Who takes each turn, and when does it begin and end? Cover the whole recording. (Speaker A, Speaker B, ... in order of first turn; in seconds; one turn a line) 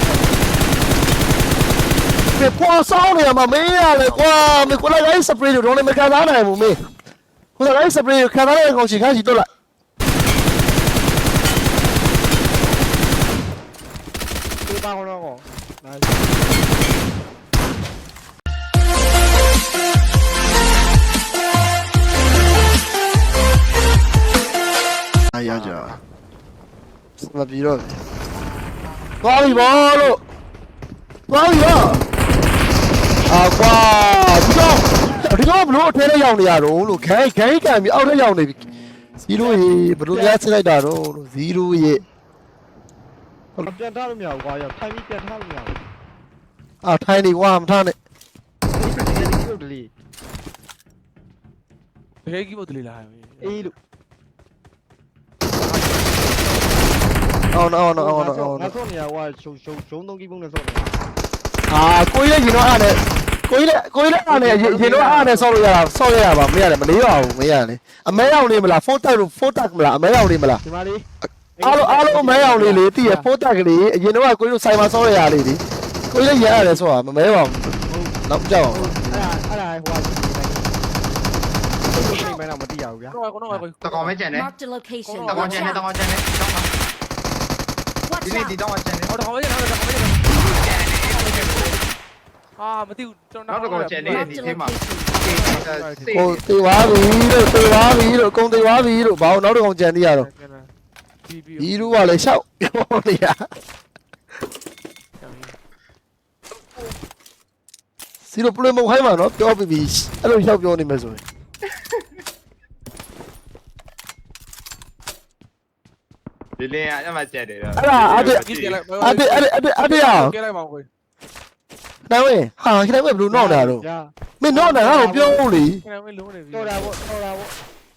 Speaker A: 2.4-6.8
Speaker A: 7.6-9.5
Speaker B: 14.7-16.3
Speaker A: 25.3-25.9
Speaker C: 25.4-26.0
Speaker A: 27.2-28.0
Speaker A: 29.2-30.2
Speaker A: 31.3-32.0
Speaker A: 33.2-38.6
Speaker A: 39.2-42.0
Speaker B: 39.3-40.4
Speaker B: 43.6-45.8
Speaker A: 46.8-48.0
Speaker B: 48.7-49.9
Speaker C: 49.0-49.3
Speaker D: 52.2-53.7
Speaker B: 53.4-53.7
Speaker B: 55.6-56.5
Speaker A: 57.5-58.8
Speaker B: 57.9-61.0
Speaker A: 61.7-70.6
Speaker B: 64.3-65.2
Speaker D: 64.3-65.4
Speaker B: 70.6-71.0
Speaker B: 71.6-73.3
Speaker A: 71.6-79.3
Speaker B: 76.2-76.8
Speaker B: 77.9-80.8
Speaker B: 81.9-83.2
Speaker E: 82.1-82.4
Speaker D: 83.1-84.2
Speaker C: 83.8-84.5
Speaker E: 84.3-85.8
Speaker D: 85.0-85.8
Speaker C: 85.3-86.7
Speaker E: 88.0-88.6
Speaker C: 88.2-89.1
Speaker D: 89.1-91.7
Speaker C: 90.3-91.8
Speaker E: 91.1-91.5
Speaker D: 92.6-96.4
Speaker C: 93.5-96.4
Speaker E: 94.1-95.1
Speaker A: 96.1-100.3
Speaker D: 98.5-99.4
Speaker D: 100.1-100.7
Speaker D: 101.2-102.2
Speaker A: 101.6-103.4
Speaker D: 105.2-105.5
Speaker A: 108.3-111.2
Speaker C: 116.6-118.8
Speaker A: 117.8-118.4
Speaker D: 118.0-120.9
Speaker A: 119.0-120.3
Speaker A: 122.1-123.8
Speaker B: 123.3-125.5
Speaker A: 124.4-125.8
Speaker D: 125.6-127.0
Speaker B: 126.5-127.5